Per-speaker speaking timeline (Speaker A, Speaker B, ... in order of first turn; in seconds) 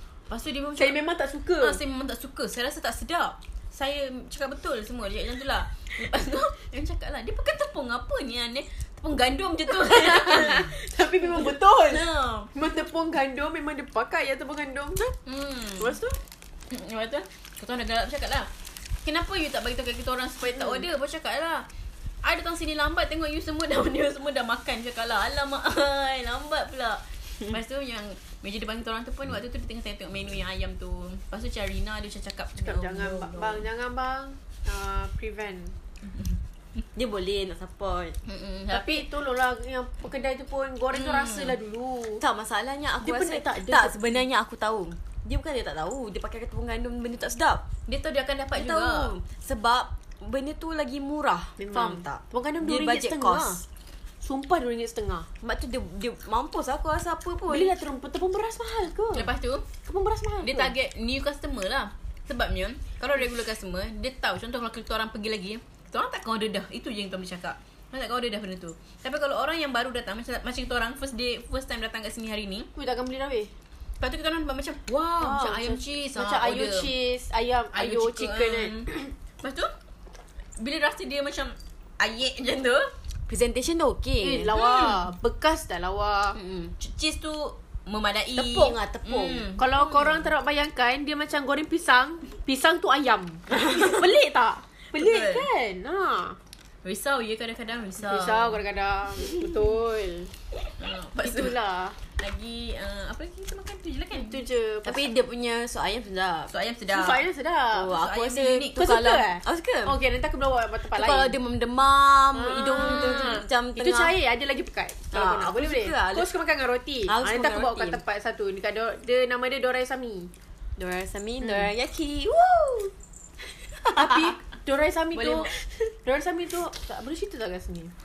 Speaker A: 0.3-1.0, 1.6-12.5, 15.1-16.0, 16.7-18.5, 19.0-21.7, 22.2-33.6, 36.0-36.4, 38.2-39.1, 40.9-41.6, 47.9-49.1, 59.1-59.6, 60.4-72.7, 74.0-76.9, 77.7-79.7, 80.6-82.9, 84.5-85.0, 86.8-90.3, 94.9-95.5, 96.8-98.6, 100.8-101.5, 102.2-104.4, 106.5-107.2, 107.9-109.0, 112.8-113.4, 125.2-125.5
Speaker B: 0.8-1.8, 9.7-15.1, 15.8-16.2, 32.6-35.8, 38.7-42.2, 43.0-44.0, 51.6-53.6, 54.2-55.3, 57.5-59.3, 59.8-60.7, 72.8-73.5, 75.2-79.1, 84.2-86.4, 89.6-96.4, 98.0-100.3, 101.2-102.0, 104.1-105.1, 106.9-108.0, 108.8-111.3, 112.3-120.3, 121.4-121.7, 123.9-125.5, 126.0-127.9
Speaker C: 37.0-38.2, 42.2-47.6, 48.5-53.6, 55.4-57.7, 83.3-84.5, 86.5-86.7, 88.4-89.5, 104.8-106.5, 107.7-110.0, 110.9-114.1, 115.1-116.3, 117.1-118.0, 120.8-122.9, 123.8-124.3